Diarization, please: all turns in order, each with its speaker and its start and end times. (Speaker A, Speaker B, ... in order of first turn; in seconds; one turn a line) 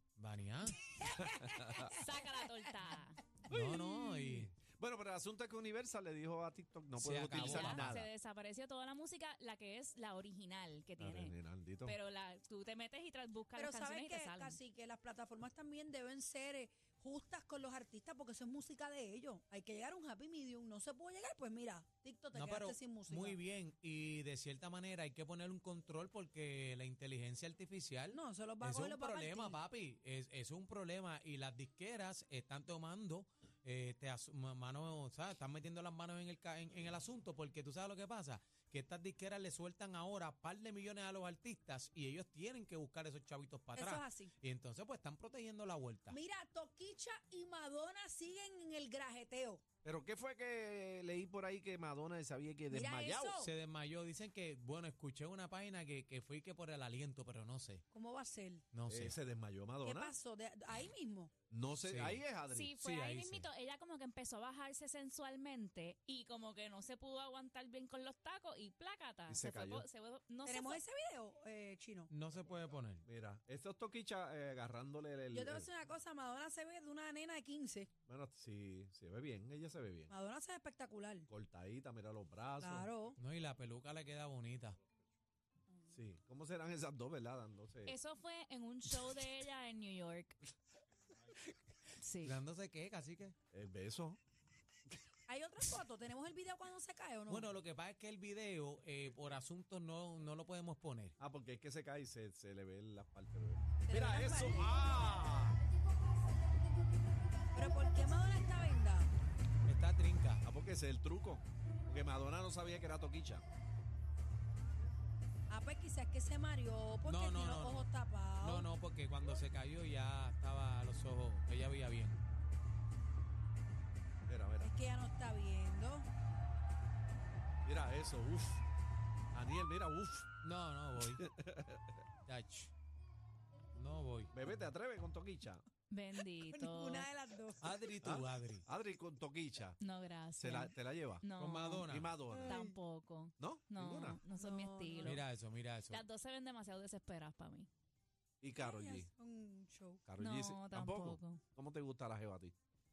Speaker A: 0.2-0.8
Speaker B: 0.8-1.9
Speaker C: 1.0-1.9
Speaker D: 1.8-3.2
Speaker C: 3.5-8.1
Speaker A: 3.5-4.6
Speaker A: 7.0-7.9
Speaker D: 7.3-14.6
Speaker C: 11.0-12.0
Speaker B: 13.5-23.4
Speaker A: 22.3-46.2
Speaker B: 28.1-29.6
Speaker B: 43.7-44.3
Speaker B: 46.1-49.6
Speaker C: 49.8-53.4
Speaker B: 52.7-53.5
Speaker A: 53.4-57.8
Speaker B: 57.9-58.6
Speaker A: 58.7-59.2
Speaker C: 58.9-60.1
Speaker B: 59.8-61.3
Speaker C: 61.5-62.7
Speaker A: 61.8-63.5
Speaker D: 62.5-70.8
Speaker C: 69.3-69.8
Speaker B: 70.4-72.1
Speaker A: 72.1-73.1
Speaker C: 73.0-75.7
Speaker B: 75.3-77.9
Speaker C: 78.1-80.1
Speaker B: 80.1-81.3
Speaker C: 81.3-82.9
Speaker B: 82.6-83.2
Speaker A: 83.2-84.8
Speaker C: 85.9-88.0
Speaker D: 87.8-90.4
Speaker D: 92.0-92.4
Speaker A: 92.2-93.3
Speaker C: 93.5-94.2
Speaker B: 95.3-97.5
Speaker A: 97.3-101.2
Speaker C: 101.2-105.6
Speaker B: 103.8-104.8
Speaker B: 107.5-109.1
Speaker A: 109.7-110.5
Speaker C: 110.4-113.4
Speaker B: 115.5-118.7
Speaker A: 117.0-122.2
Speaker C: 124.2-124.7
Speaker B: 124.6-126.1
Speaker C: 127.7-128.6
Speaker C: 129.3-130.3
Speaker A: 130.4-131.2
Speaker C: 130.9-132.0
Speaker A: 132.2-132.7
Speaker A: 133.7-134.5
Speaker C: 134.3-135.6
Speaker D: 135.9-137.1
Speaker B: 136.3-137.7
Speaker A: 137.6-138.7
Speaker C: 137.9-139.8
Speaker D: 139.8-141.9
Speaker C: 140.4-141.3
Speaker A: 141.4-142.2
Speaker C: 141.8-142.6
Speaker B: 142.3-142.7
Speaker D: 142.4-145.2
Speaker C: 143.4-144.2
Speaker B: 144.3-145.2
Speaker A: 145.0-146.0
Speaker D: 145.9-147.7
Speaker C: 148.4-149.1
Speaker B: 148.6-150.0
Speaker C: 150.1-152.6
Speaker D: 150.2-151.4